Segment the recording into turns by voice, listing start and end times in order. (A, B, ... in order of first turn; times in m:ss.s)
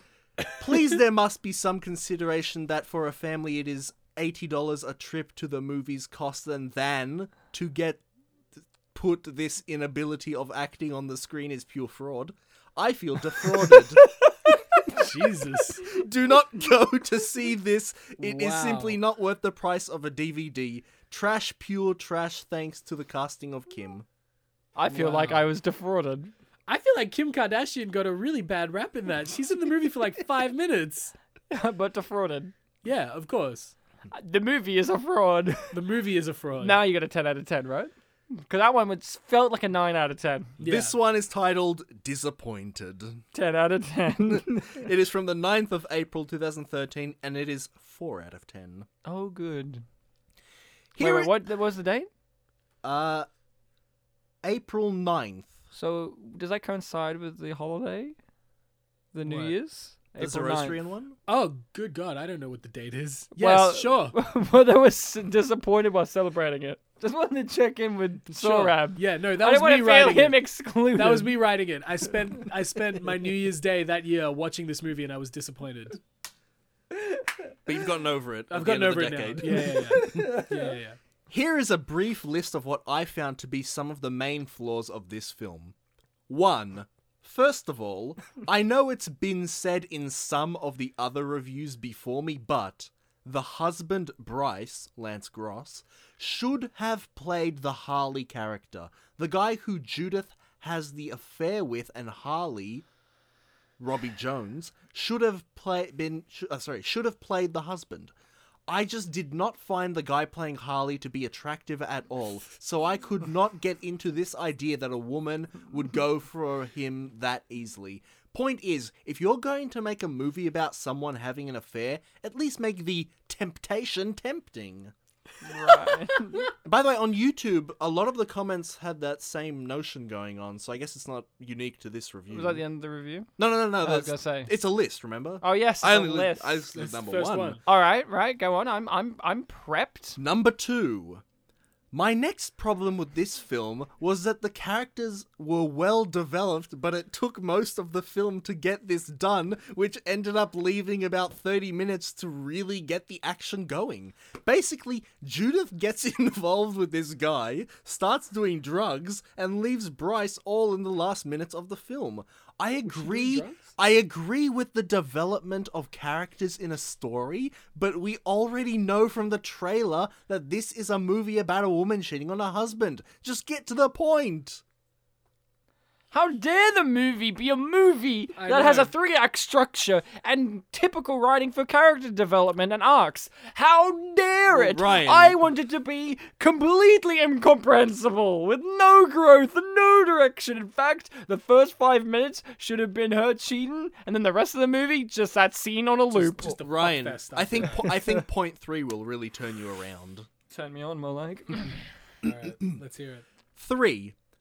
0:00.4-0:08.0 A
0:08.9-0:14.1 A
0:14.9-0:15.9 B
0:15.8-0:24.0 A
0:18.2-0:19.0 B
0:24.8-0:26.3 C
0:24.9-0:25.5 B
0:26.7-0:31.2 B
0:31.5-0:32.5 C
0:32.8-0:33.8 B
0:34.1-0:35.8 C
0:35.7-0:36.8 B
0:36.6-0:40.6 C
0:40.6-0:41.0 B
0:40.6-0:43.2 A
0:43.3-0:44.8 C
0:44.3-0:48.9 A
0:49.0-0:49.8 C
0:51.0-0:51.4 A
0:51.0-0:52.1 C
0:52.8-0:53.3 A
0:54.4-0:55.6 A
0:55.7-0:58.2 C
0:59.1-1:00.8 C
0:59.2-0:59.6 B
1:00.2-1:01.2 A
1:01.3-1:04.2 B
1:03.4-1:11.4 C
1:08.3-1:16.0 B
1:16.9-1:17.3 C
1:17.7-1:20.2 A
1:18.5-1:21.0 B
1:19.5-1:20.7 C
1:21.3-1:25.8 A
1:26.3-1:42.8 A
1:43.8-1:48.1 A
1:48.7-2:04.9 A
2:05.4-2:06.5 C
2:06.5-2:12.6 A
2:12.3-2:13.3 C
2:13.4-2:17.6 A
2:13.8-2:14.5 C
2:15.4-2:16.7 C
2:16.7-2:17.6 B
2:17.6-2:20.2 C
2:20.2-2:21.2 A
2:21.9-2:54.6 A
2:42.9-2:43.7 B
2:56.1-3:16.6 C
2:58.4-2:58.9 B
3:04.5-3:05.4 A
3:16.1-3:18.0 B
3:16.6-3:20.3 A
3:20.5-3:21.8 C
3:22.2-3:23.2 B
3:23.6-3:24.2 A